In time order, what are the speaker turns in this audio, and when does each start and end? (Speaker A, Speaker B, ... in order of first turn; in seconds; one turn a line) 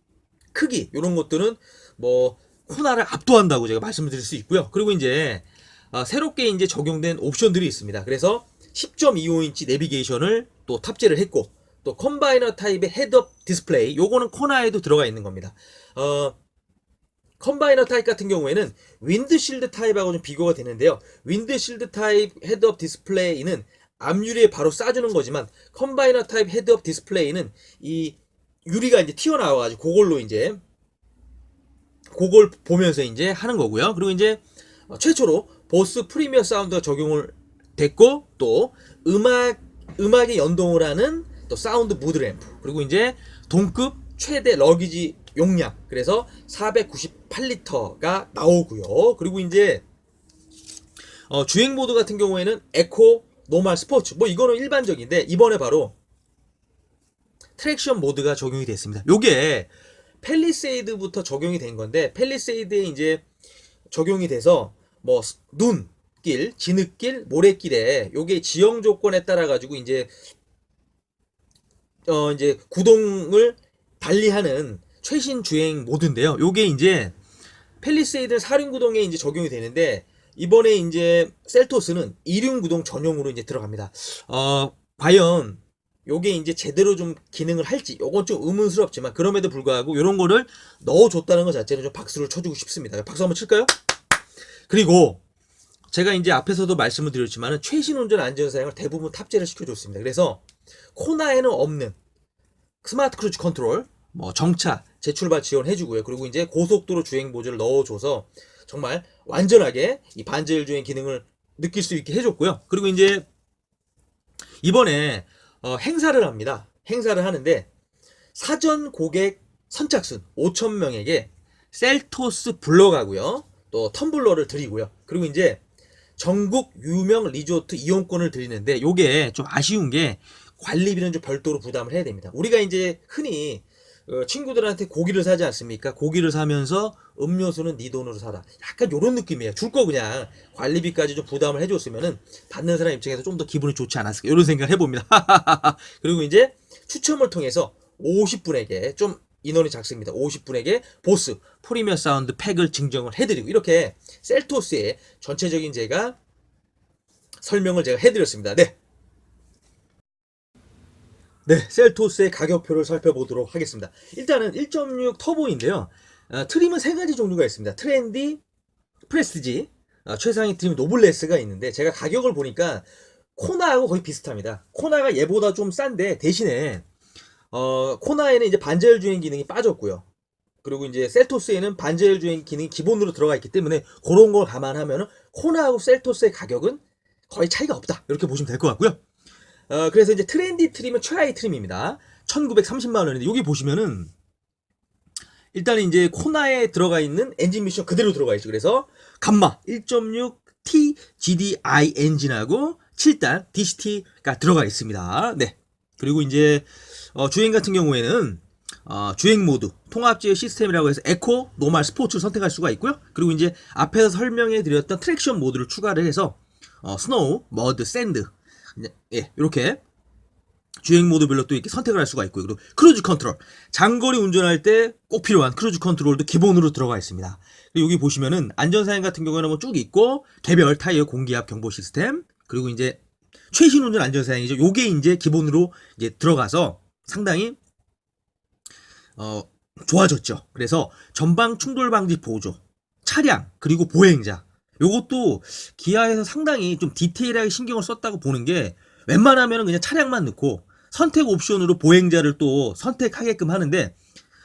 Speaker A: 0.5-16.3
Speaker A: 17.4-30.6
Speaker A: 32.1-49.8
Speaker A: 51.3-55.9
Speaker A: 57.6-59.7
Speaker A: 60.2-63.2
Speaker A: 63.9-70.1
Speaker A: 72.1-77.1
Speaker A: 77.8-93.7
Speaker A: 94.7-95.2
Speaker A: 95.9-100.4
Speaker A: 100.9-102.0
Speaker A: 102.8-113.3
Speaker A: 114.6-117.7
Speaker A: 118.3-125.6
Speaker A: 126.2-156.2
Speaker A: 157.4-158.8
Speaker A: 161.4-168.4
Speaker A: 169.1-176.8
Speaker A: 177.5-180.0
Speaker A: 180.6-189.0
Speaker A: 189.7-194.1
Speaker A: 195.5-219.8
Speaker A: 220.8-233.0
Speaker A: 233.5-237.6
Speaker A: 239.2-253.9